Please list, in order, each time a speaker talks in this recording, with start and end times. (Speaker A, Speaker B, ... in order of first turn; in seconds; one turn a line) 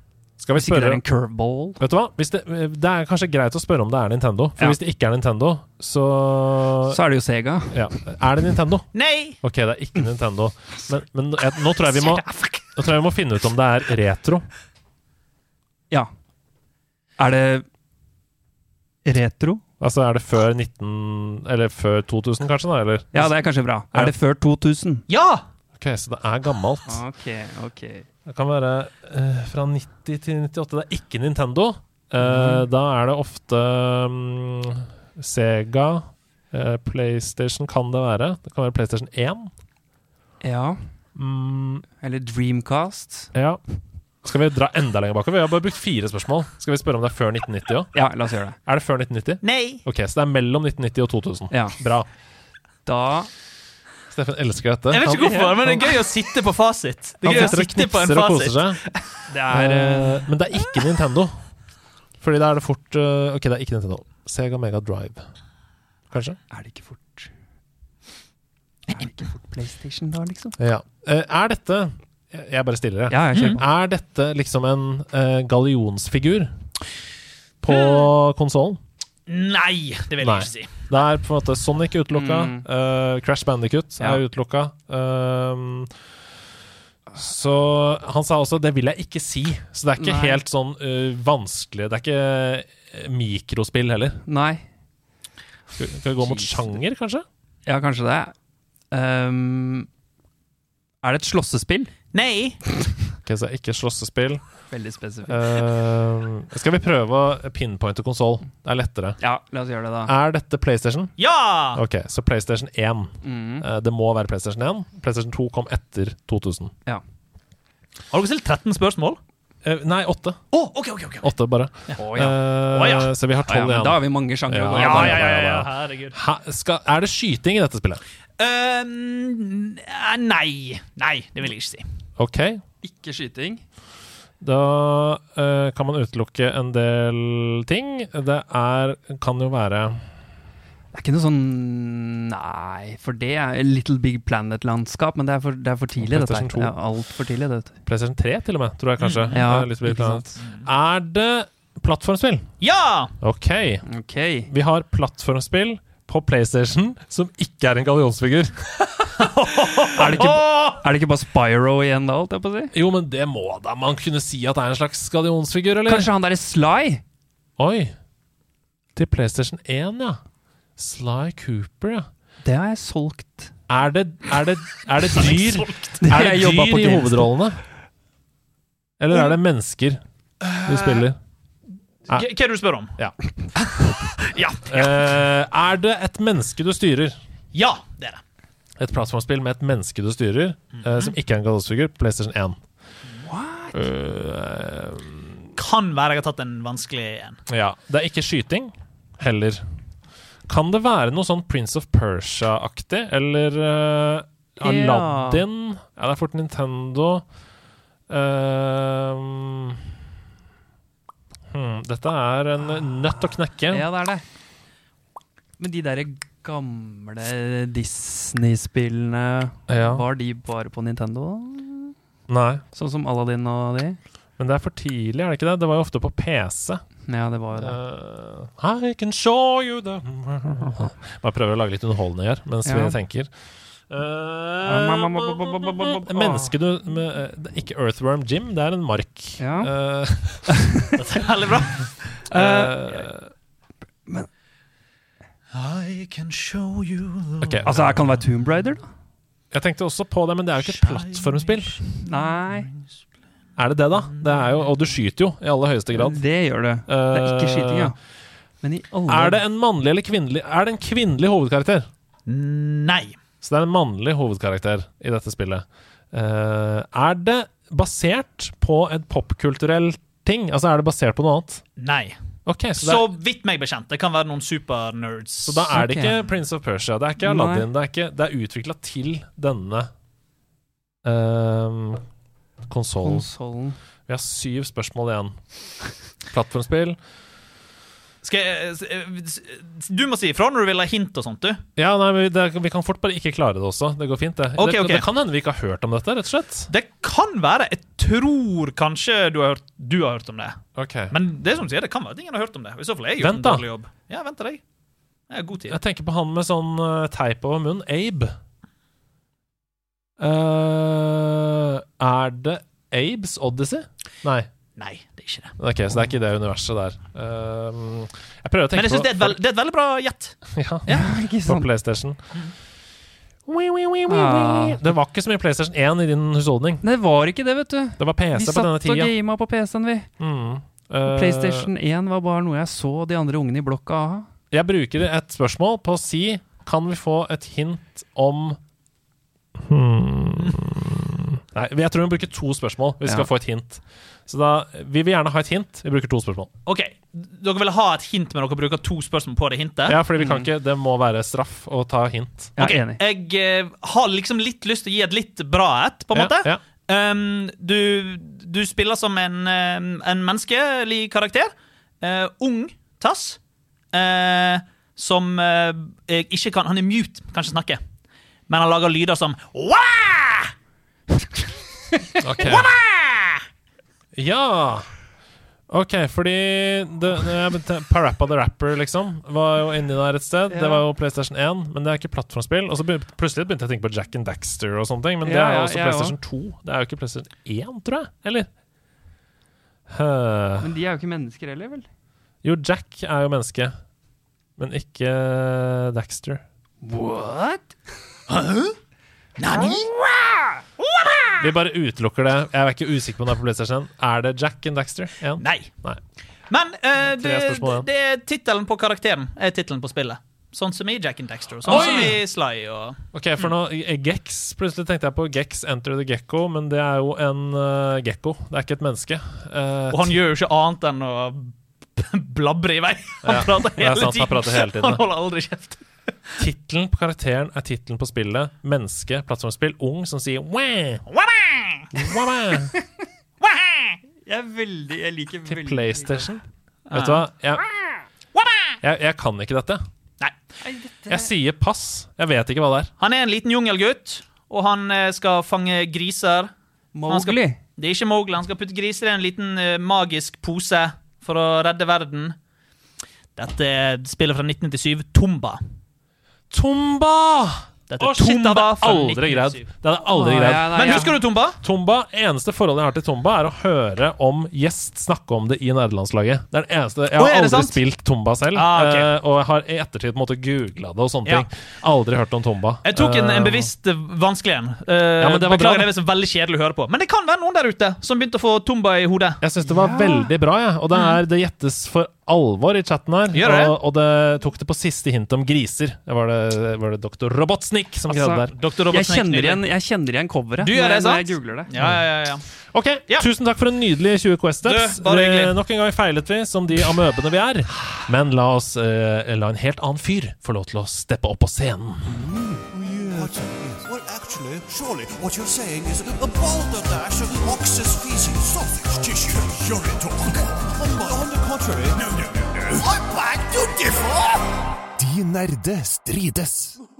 Speaker A: 0.4-1.0
Speaker B: 0.5-1.8
Speaker A: 1.8-7.0
Speaker B: 6.9-7.8
Speaker A: 7.7-8.9
Speaker C: 8.9-9.4
Speaker A: 9.4-14.4
Speaker C: 11.9-12.7
Speaker B: 17.2-17.6
Speaker B: 19.0-19.6
Speaker A: 19.8-23.4
Speaker B: 23.1-25.0
Speaker C: 25.1-25.4
Speaker A: 25.8-27.0
Speaker B: 26.9-28.1
Speaker A: 28.2-39.5
Speaker B: 32.2-32.6
Speaker B: 40.4-40.9
Speaker A: 41.1-41.8
Speaker B: 42.0-43.3
Speaker A: 43.3-43.6
Speaker A: 44.2-48.0
Speaker B: 47.9-48.6
Speaker A: 48.6-52.0
Speaker C: 49.4-49.8
Speaker B: 51.5-51.8
Speaker B: 52.8-53.3
Speaker A: 54.1-55.9
Speaker C: 54.9-59.0
Speaker B: 55.2-55.6
Speaker A: 57.2-58.8
Speaker B: 59.3-60.3
Speaker A: 59.5-61.5
Speaker A: 62.2-65.3
Speaker A: 66.1-66.4
Speaker B: 66.5-67.3
Speaker B: 68.9-70.6
Speaker A: 70.6-76.6
Speaker B: 73.1-73.6
Speaker C: 73.3-73.6
Speaker A: 77.6-78.8
Speaker C: 77.7-78.1
Speaker C: 79.3-80.8
Speaker A: 80.2-85.9
Speaker B: 82.1-82.6
Speaker A: 87.2-94.2
Speaker B: 90.0-90.4
Speaker B: 94.3-94.6
Speaker A: 95.8-97.2
Speaker B: 96.2-96.7
Speaker B: 97.7-98.3
Speaker B: 98.9-99.9
Speaker B: 101.0-101.9
Speaker C: 102.1-102.6
Speaker A: 103.2-104.5
Speaker B: 104.7-105.6
Speaker A: 105.2-109.2
Speaker B: 109.2-110.1
Speaker A: 110.0-111.1
Speaker C: 111.2-111.8
Speaker A: 111.7-116.7
Speaker B: 113.2-113.7
Speaker C: 118.1-119.2
Speaker A: 119.6-120.4
Speaker C: 120.5-121.3
Speaker A: 121.2-128.0
Speaker B: 122.0-122.4
Speaker C: 122.7-123.1
Speaker B: 123.5-125.3
Speaker C: 124.7-126.2
Speaker C: 128.4-131.8
Speaker A: 132.2-132.6
Speaker B: 132.8-133.6
Speaker A: 134.4-140.1
Speaker B: 140.9-147.8
Speaker A: 146.0-146.8
Speaker A: 147.8-152.4
Speaker C: 149.0-149.3
Speaker B: 149.3-150.4
Speaker C: 152.6-153.1
Speaker A: 153.2-153.8
Speaker B: 153.9-154.5
Speaker A: 154.5-158.8
Speaker C: 159.2-160.8
Speaker B: 159.9-162.7
Speaker A: 162.7-166.1
Speaker B: 165.8-167.0
Speaker A: 167.6-167.9
Speaker A: 168.9-170.2
Speaker A: 170.8-172.1
Speaker B: 172.4-173.5
Speaker A: 173.7-177.6
Speaker C: 175.2-176.0
Speaker B: 176.0-177.3
Speaker A: 179.0-180.0
Speaker C: 180.5-181.1
Speaker A: 180.6-181.2
Speaker C: 182.1-183.0
Speaker C: 183.5-184.9
Speaker A: 184.7-187.2
Speaker C: 187.5-188.2
Speaker A: 188.8-192.6
Speaker C: 190.8-191.1
Speaker B: 193.2-193.8
Speaker A: 193.7-195.4
Speaker C: 195.6-197.4
Speaker A: 197.5-199.6
Speaker A: 200.5-207.3
Speaker B: 204.6-205.4
Speaker A: 208.1-209.8
Speaker A: 211.5-213.8
Speaker B: 213.7-214.2
Speaker B: 215.6-221.9
Speaker A: 219.7-220.0
Speaker A: 222.3-222.6
Speaker B: 222.7-224.0
Speaker A: 224.4-226.8
Speaker B: 227.1-227.8
Speaker A: 227.5-233.3
Speaker B: 232.6-232.9
Speaker A: 233.9-240.5
Speaker B: 234.6-236.5
Speaker B: 239.4-239.7
Speaker B: 240.5-240.9
Speaker C: 241.0-242.7
Speaker A: 242.3-243.3
Speaker B: 242.4-243.1
Speaker C: 245.5-247.6
Speaker A: 247.4-248.0
Speaker B: 247.7-248.8
Speaker A: 249.5-251.8
Speaker C: 250.7-252.8
Speaker B: 252.1-252.7
Speaker A: 253.6-256.2
Speaker C: 254.2-254.6
Speaker B: 255.9-258.0
Speaker A: 256.9-257.9
Speaker B: 258.6-259.4
Speaker A: 259.1-261.9
Speaker C: 262.2-263.1
Speaker A: 263.4-271.6
Speaker C: 271.8-272.2
Speaker A: 272.4-273.1
Speaker C: 272.8-275.7
Speaker A: 275.4-279.9
Speaker B: 275.7-276.2
Speaker B: 277.2-277.7
Speaker A: 281.0-282.0
Speaker A: 282.7-283.3
Speaker B: 283.0-283.8
Speaker A: 284.1-285.4
Speaker A: 286.3-287.0
Speaker C: 288.2-291.6
Speaker A: 291.8-296.7
Speaker C: 294.6-295.1
Speaker C: 296.7-304.6
Speaker A: 300.8-301.1
Speaker A: 303.2-303.6
Speaker C: 305.3-305.8
Speaker A: 305.7-308.3
Speaker A: 310.2-314.5
Speaker C: 314.8-315.5
Speaker A: 315.6-319.4
Speaker C: 318.7-321.1
Speaker A: 320.5-322.2
Speaker B: 320.9-321.7
Speaker A: 323.4-326.8
Speaker B: 324.1-324.9
Speaker B: 326.8-330.1
Speaker A: 328.0-329.1
Speaker A: 330.2-331.7
Speaker B: 331.0-334.3
Speaker A: 334.5-338.6
Speaker A: 339.6-346.5
Speaker C: 346.6-350.0
Speaker A: 349.9-352.5
Speaker B: 350.2-350.5
Speaker B: 352.6-353.0
Speaker C: 352.6-363.4
Speaker A: 356.1-356.6
Speaker C: 363.9-367.8
Speaker C: 368.5-370.5
Speaker A: 372.2-372.7
Speaker C: 372.4-373.4
Speaker A: 374.1-374.9
Speaker A: 375.7-388.5
Speaker B: 380.5-380.8
Speaker B: 385.2-386.2
Speaker A: 389.9-390.7
Speaker B: 390.6-391.9
Speaker A: 392.4-393.8
Speaker A: 394.6-396.4
Speaker B: 396.8-397.8
Speaker C: 398.3-398.8
Speaker C: 399.4-401.4
Speaker B: 399.5-399.8
Speaker A: 401.4-406.0
Speaker C: 405.4-405.7
Speaker C: 406.5-413.5
Speaker A: 407.0-407.9
Speaker B: 411.6-412.2
Speaker A: 411.7-412.2
Speaker A: 413.1-420.1
Speaker C: 419.9-425.8
Speaker A: 423.2-425.0
Speaker A: 426.4-431.0
Speaker C: 431.1-431.9
Speaker A: 431.9-432.7
Speaker C: 433.4-434.0
Speaker B: 434.2-436.3
Speaker A: 435.4-437.6
Speaker C: 436.9-437.2
Speaker C: 438.3-438.8
Speaker A: 438.8-439.8
Speaker B: 440.6-441.3
Speaker A: 441.1-442.9
Speaker C: 443.0-446.5
Speaker B: 446.9-447.6
Speaker C: 447.1-452.4
Speaker C: 453.4-455.6
Speaker A: 456.5-473.7
Speaker C: 457.9-459.7
Speaker B: 460.1-461.2
Speaker C: 460.7-461.6
Speaker C: 467.1-467.8
Speaker C: 468.5-469.1
Speaker C: 472.8-479.4
Speaker A: 475.2-475.9
Speaker A: 479.4-488.5
Speaker B: 479.6-480.3
Speaker C: 483.3-483.7
Speaker B: 488.1-491.7
Speaker C: 488.5-489.6
Speaker C: 490.6-492.4
Speaker A: 491.8-492.0
Speaker A: 492.7-502.1
Speaker C: 494.6-495.6
Speaker B: 502.1-503.8
Speaker D: 502.7-516.8